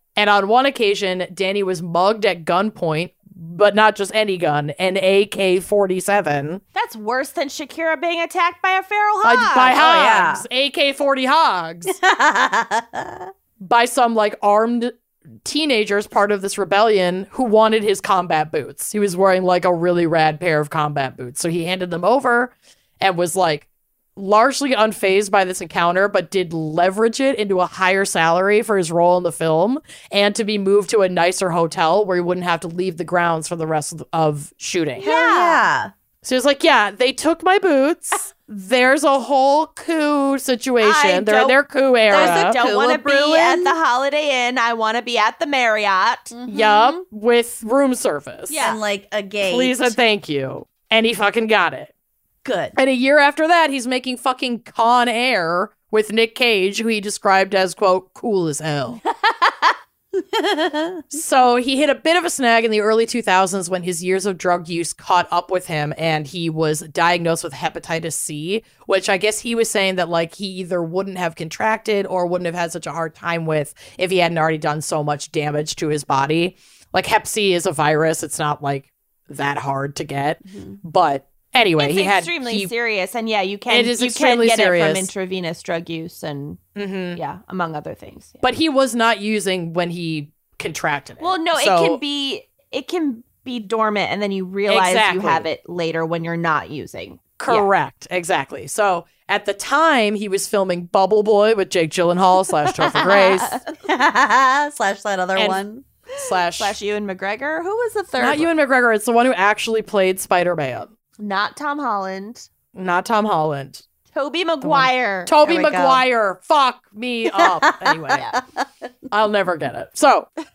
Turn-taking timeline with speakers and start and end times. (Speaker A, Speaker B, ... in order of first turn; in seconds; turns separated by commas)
Speaker A: 0.1-6.6, Speaker B: 6.7-9.8, Speaker A: 9.2-11.9, Speaker C: 9.7-10.4, Speaker C: 11.9-13.3, Speaker A: 13.6-14.9, Speaker A: 15.4-35.1, Speaker B: 35.0-35.6, Speaker C: 35.0-35.9, Speaker A: 36.2-42.6, Speaker B: 40.8-47.0, Speaker C: 42.1-43.8, Speaker A: 46.5-48.6, Speaker B: 48.5-48.8, Speaker C: 48.6-49.9, Speaker A: 49.4-51.9, Speaker C: 52.4-52.8, Speaker A: 52.7-59.0, Speaker C: 60.1-61.0, Speaker A: 61.1-82.7, Speaker C: 80.5-80.8, Speaker B: 81.8-86.6, Speaker A: 83.7-85.1, Speaker A: 86.8-87.2, Speaker B: 87.2-88.4, Speaker A: 88.4-92.0, Speaker B: 91.2-97.7, Speaker A: 94.7-95.5, Speaker A: 97.4-103.6, Speaker B: 102.8-103.6, Speaker C: 103.8-105.9, Speaker A: 105.3-105.6, Speaker A: 106.2-106.7, Speaker B: 106.6-108.5, Speaker A: 108.2-110.9, Speaker B: 111.2-112.5, Speaker A: 112.7-113.8, Speaker B: 114.1-115.3, Speaker A: 114.6-118.3, Speaker C: 115.4-116.0, Speaker C: 117.3-118.4, Speaker B: 118.1-118.4, Speaker A: 119.1-120.3